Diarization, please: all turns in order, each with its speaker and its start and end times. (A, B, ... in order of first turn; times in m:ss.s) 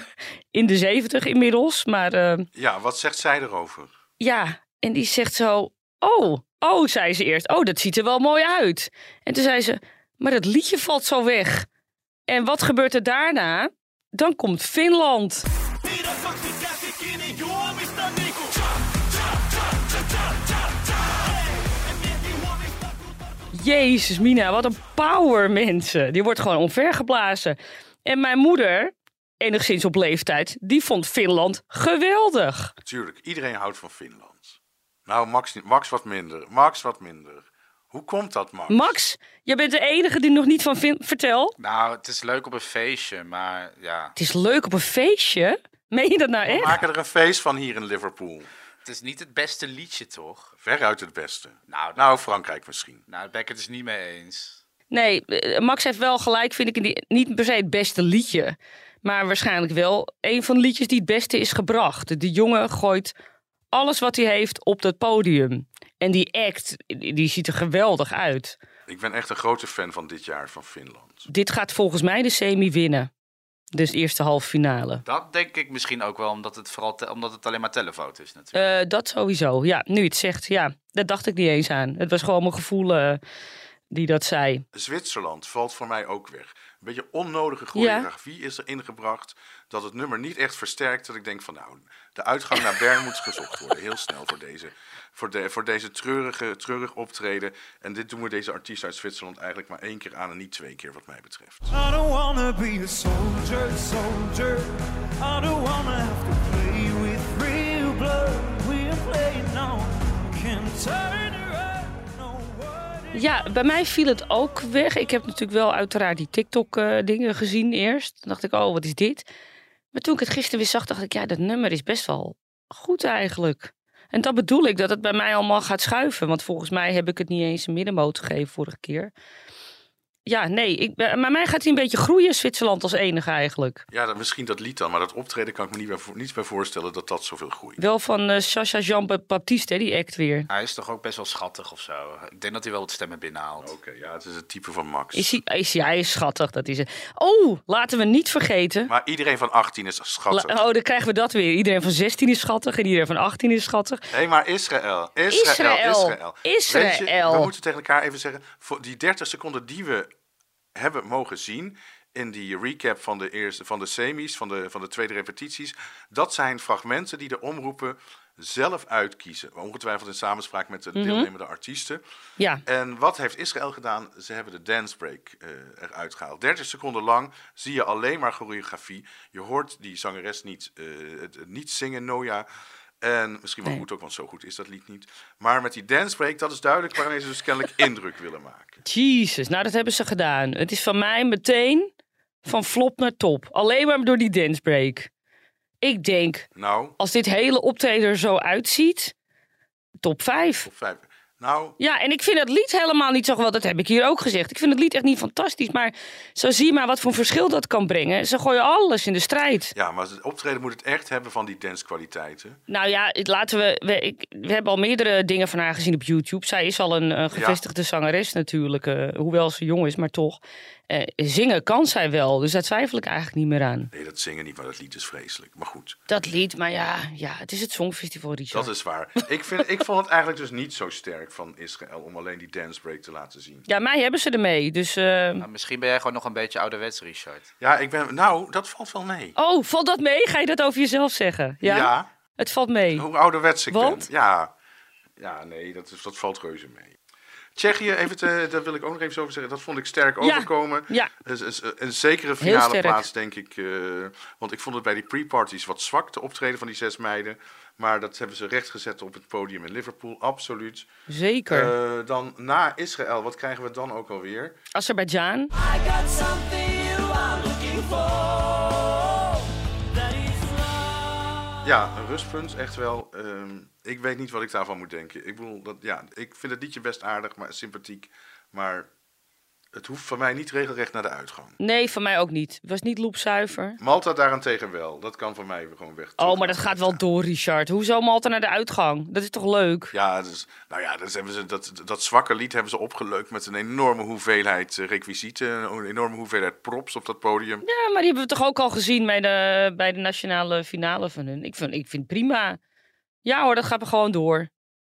0:00.5-0:02.5 A
0:02.5-0:03.9 B
0:04.2-0:11.7 A
0:12.3-0:15.5 A
0:16.4-0:18.3 C
0:23.5-0:32.7 A
0:32.8-0:38.9 B
0:38.7-0:41.5 A
0:41.6-0:44.2 D
0:44.2-0:46.8 A
0:46.4-0:48.5 B
0:48.8-0:50.5 D
0:50.6-0:53.0 B
0:51.7-0:52.1 D
0:53.1-0:54.6 D
0:54.9-1:03.1 A
1:03.7-1:08.6 A
1:08.9-1:11.3 B
1:11.3-1:13.1 A
1:13.7-1:15.0 A
1:15.0-1:18.6 D
1:18.6-1:23.2 A
1:23.9-1:24.6 A
1:24.7-1:41.7 B
1:27.8-1:28.1 A
1:41.7-1:53.2 C
1:53.1-1:59.3 A
1:59.9-2:09.1 A
2:10.3-2:13.8 A
2:13.9-2:17.8 B
2:17.8-2:20.5 A
2:20.5-2:23.7 D
2:23.6-2:25.3 B
2:25.2-2:28.9 A
2:28.9-2:30.6 B
2:30.3-2:34.0 A
2:34.1-2:40.1 B
2:35.3-2:37.5 A
2:40.8-2:52.0 B
2:51.0-2:51.3 A
2:52.6-3:02.5 B
3:03.0-3:08.8 B
3:08.8-3:11.9 A
3:12.4-3:15.1 A
3:15.8-3:16.5 A
3:16.6-3:17.0 B
3:17.0-3:19.2 A
3:20.0-3:20.7 A
3:20.6-3:21.8 B
3:21.8-3:29.7 A
3:29.8-3:32.6 B
3:32.7-3:43.9 A
3:37.3-3:37.6 B
3:43.9-3:46.0 B
3:46.1-3:48.7 A
3:48.5-3:53.6 B
3:53.7-3:55.4 A
3:55.4-3:57.5 D
3:57.6-3:59.4 B
3:59.4-4:03.1 A
4:01.6-4:02.1 B
4:03.0-4:04.5 B
4:03.7-4:04.1 A
4:05.2-4:07.0 B
4:07.6-4:20.9 B
4:10.2-4:11.1 A
4:12.4-4:13.0 A
4:21.1-4:21.7 A
4:21.5-4:24.6 B
4:24.8-4:25.5 A
4:25.6-4:29.4 E
4:30.0-4:31.4 E
4:31.6-4:38.9 B
4:39.7-4:41.6 B
4:41.6-4:43.8 A
4:43.8-4:47.0 B
4:46.2-4:49.9 A
4:49.9-4:57.6 B
4:57.6-5:02.6 A
5:03.2-5:04.5 A